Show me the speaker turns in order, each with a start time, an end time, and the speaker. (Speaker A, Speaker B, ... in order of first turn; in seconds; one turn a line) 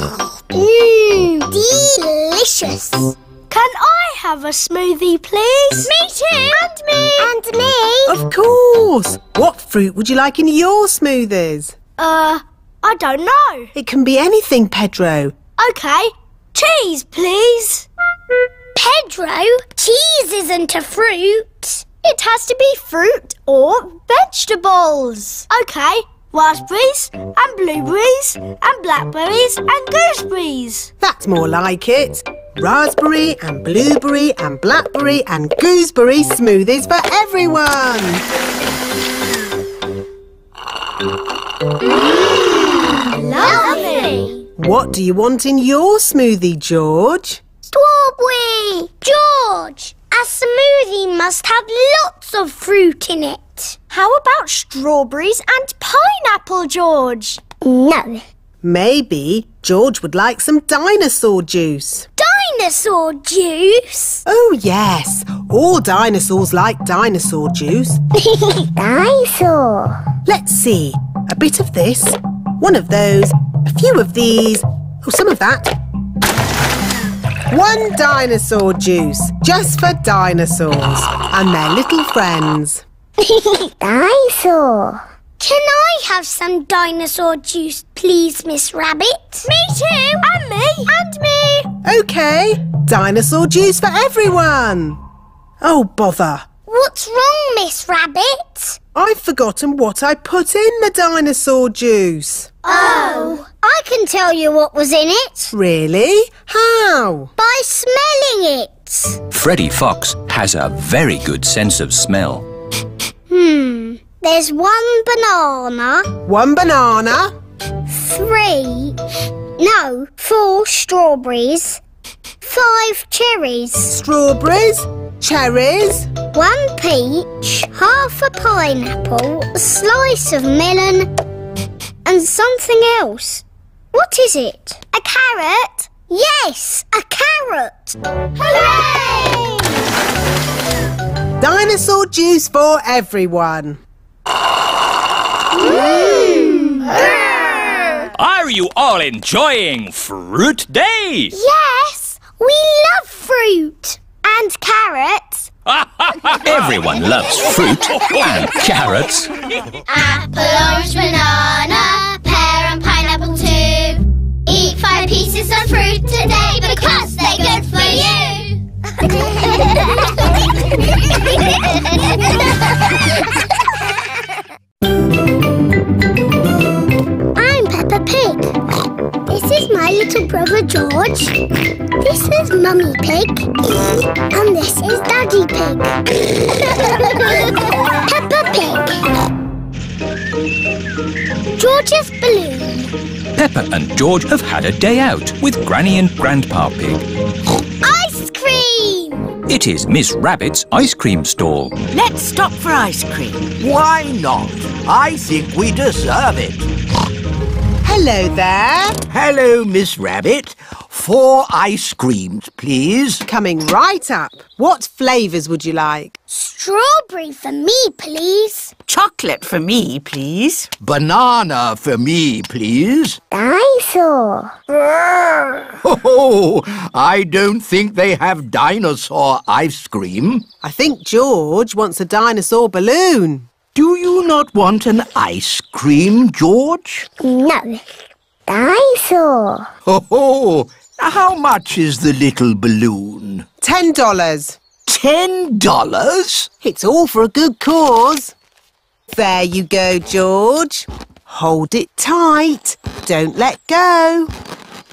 Speaker A: 0.5-3.1
Speaker B: 3.5-7.3
Speaker A: 5.8-8.2
Speaker C: 8.1-11.8
Speaker B: 12.0-13.7
Speaker C: 13.7-15.3
Speaker B: 15.6-17.9
Speaker A: 18.7-21.9
Speaker B: 22.0-30.9
Speaker C: 31.0-38.2
Speaker A: 42.0-44.4
Speaker B: 43.2-44.3
Speaker C: 44.6-47.4
Speaker A: 47.7-53.8
Speaker B: 53.9-57.4
Speaker A: 57.6-58.2
Speaker C: 58.6-62.1
Speaker A: 62.2-64.2
Speaker C: 64.2-68.0
Speaker A: 68.2-70.0
Speaker C: 70.2-75.7
Speaker C: 77.5-82.8
Speaker A: 83.2-89.5
Speaker B: 89.4-91.7
Speaker C: 91.8-95.0
Speaker C: 95.6-96.5
Speaker A: 96.7-98.8
Speaker C: 98.9-102.5
Speaker A: 102.6-105.5
Speaker C: 105.5-107.3
Speaker A: 107.4-109.2
Speaker D: 109.3-112.4
Speaker A: 113.3-116.1
Speaker C: 116.2-117.3
Speaker A: 117.9-119.0
Speaker A: 119.6-121.8
Speaker A: 122.4-124.0
Speaker C: 123.9-126.1
Speaker A: 126.3-131.1
Speaker A: 132.0-139.7
Speaker B: 138.4-139.4
Speaker C: 141.4-143.8
Speaker A: 145.6-146.8
Speaker D: 148.1-151.3
Speaker A: 151.3-155.5
Speaker D: 155.7-159.3
Speaker A: 159.9-172.3
Speaker A: 177.3-178.6
Speaker A: 179.2-181.4
Speaker A: 182.0-185.9
Speaker A: 186.8-187.5
Speaker A: 188.1-188.9
Speaker A: 191.6-192.9
Speaker D: 193.3-197.0
Speaker A: 197.8-199.3
Speaker D: 199.5-201.8
Speaker E: 201.9-203.5
Speaker F: 203.6-206.7
Speaker C: 207.8-209.0
Speaker F: 209.1-213.2
Speaker C: 213.2-216.1
Speaker A: 216.3-218.7
Speaker E: 218.9-220.7
Speaker F: 220.8-223.2
Speaker A: 223.3-224.6
Speaker F: 225.8-230.4
Speaker C: 230.6-233.5
Speaker F: 233.7-237.1
Speaker A: 237.2-239.7
Speaker F: 239.8-243.5
Speaker C: 243.6-244.6
Speaker F: 244.9-246.5
Speaker C: 246.6-248.3
Speaker C: 249.1-254.3